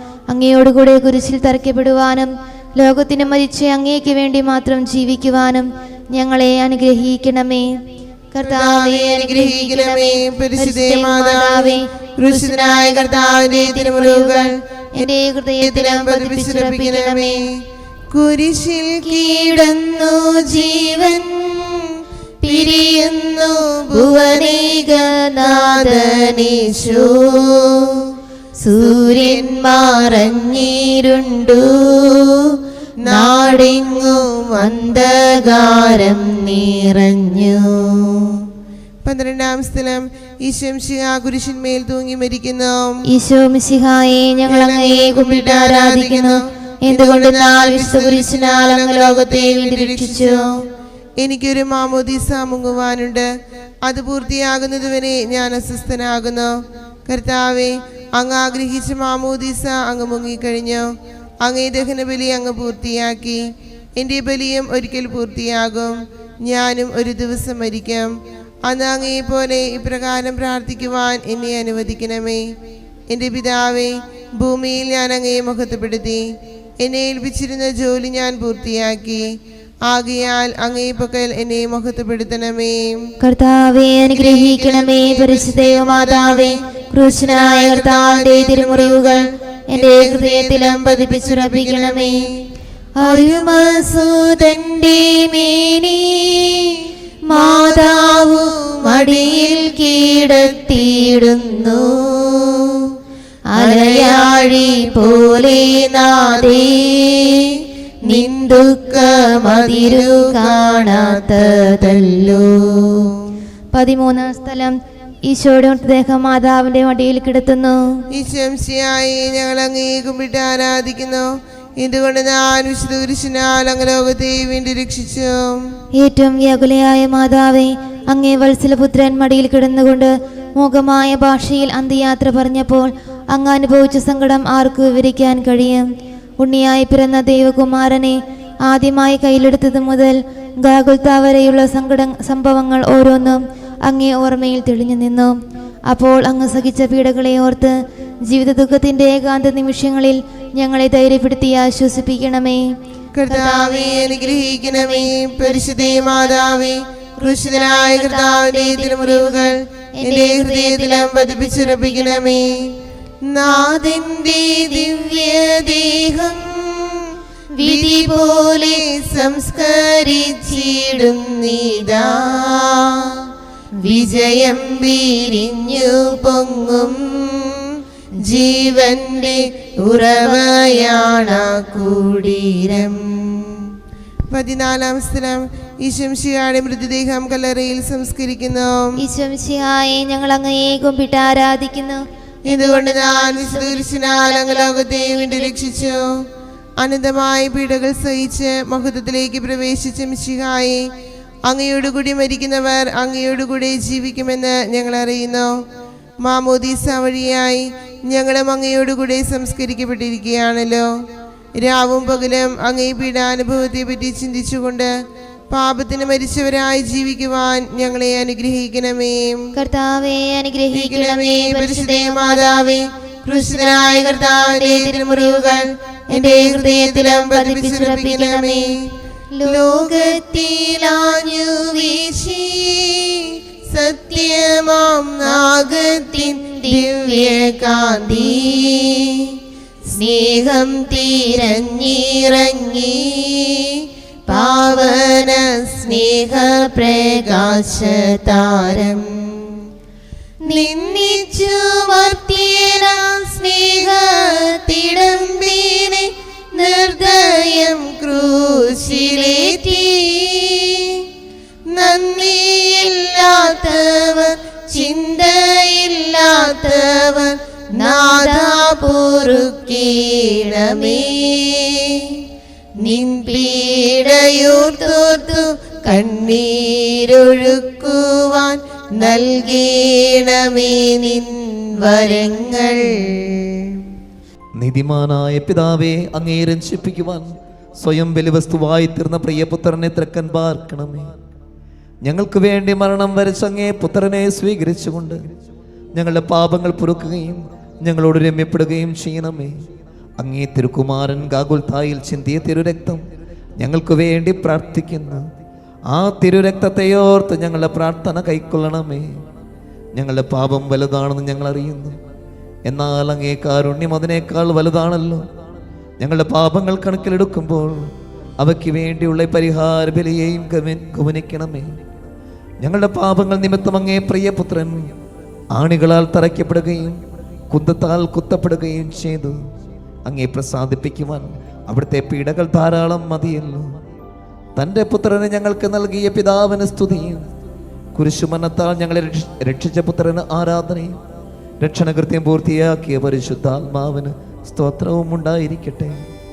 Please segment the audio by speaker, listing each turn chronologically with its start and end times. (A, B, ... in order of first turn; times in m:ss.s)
0:00.3-0:07.7 A
0:08.3-0:12.7 A
0:08.4-0:15.1 B
0:13.6-0:17.4 A
0:15.6-0:17.4 B
0:18.1-0:21.3 B
0:22.4-0:23.0 A
0:22.4-0:27.9 B
0:23.9-0:26.5 A
0:28.6-0:32.3 A
0:28.7-0:30.6 B
0:33.0-0:36.2 B
0:33.0-0:38.2 A
0:39.0-0:43.0 B
0:43.1-0:50.4 A
0:44.5-0:50.5 B
0:51.2-0:53.3 B
0:53.8-0:56.5 B
0:57.1-1:00.9 B
1:01.4-1:03.4 B
1:04.0-1:08.1 B
1:08.6-1:12.4 B
1:13.1-1:16.2 B
1:16.8-1:19.3 B
1:19.9-1:23.0 B
1:23.2-1:32.1 A
1:24.1-1:26.6 B
1:27.1-1:29.2 B
1:29.7-1:32.2 B
1:33.0-1:36.8 A
1:37.3-1:41.9 A
1:37.3-1:39.7 B
1:43.5-1:52.4 A
1:43.6-1:44.9 B
1:46.2-1:46.7 B
1:48.1-1:52.4 B
1:53.7-1:54.7 A
1:55.2-1:57.8 A
1:58.1-2:01.3 B
2:01.8-2:05.6 B
2:06.0-2:15.9 A
2:16.4-2:18.2 A
2:18.7-2:25.4 A
2:25.9-2:27.7 A
2:28.3-2:32.6 A
2:33.2-2:42.5 B
2:33.3-2:34.1 A
2:37.7-2:39.5 A
2:40.0-2:41.0 A
2:43.3-2:53.2 B
2:47.6-2:48.7 A
2:53.8-2:57.7 B
2:58.3-3:03.6 B
3:04.3-3:08.9 B
3:09.0-3:12.0 A
3:12.5-3:16.0 B
3:12.5-3:13.8 A
3:16.8-3:20.8 B
3:21.5-3:25.5 B
3:26.2-3:30.9 B
3:31.6-3:34.9 B
3:35.5-3:39.4 B
3:39.6-3:42.4 A
3:40.7-3:48.8 B
3:44.6-3:45.1 A
3:46.1-3:48.7 A
3:49.4-3:50.2 A
3:49.4-3:59.2 B
3:56.2-3:57.0 A
4:00.0-4:03.4 B
4:00.0-4:01.8 A
4:04.3-4:09.1 B
4:10.5-4:20.3 B
4:10.5-4:12.7 A
4:19.0-4:20.4 A
4:21.7-4:32.0 B
4:27.8-4:29.8 A
4:30.8-4:31.0 A
4:32.8-4:42.8 B
4:32.9-4:33.8 A
4:34.6-4:35.2 A
4:44.6-4:51.1 C
4:52.0-4:55.2 C
4:56.0-4:59.5 C
5:00.2-5:03.0 C
5:03.6-5:05.2 C
5:05.9-5:09.2 C
5:10.0-5:12.0 C
5:12.7-5:15.2 C
5:16.0-5:21.7 C
5:22.6-5:24.9 C
5:25.5-5:27.0 C
5:27.5-5:29.4 C
5:30.0-5:33.8 C
5:34.6-5:37.2 C
5:37.9-5:41.0 C
5:41.6-5:46.0 C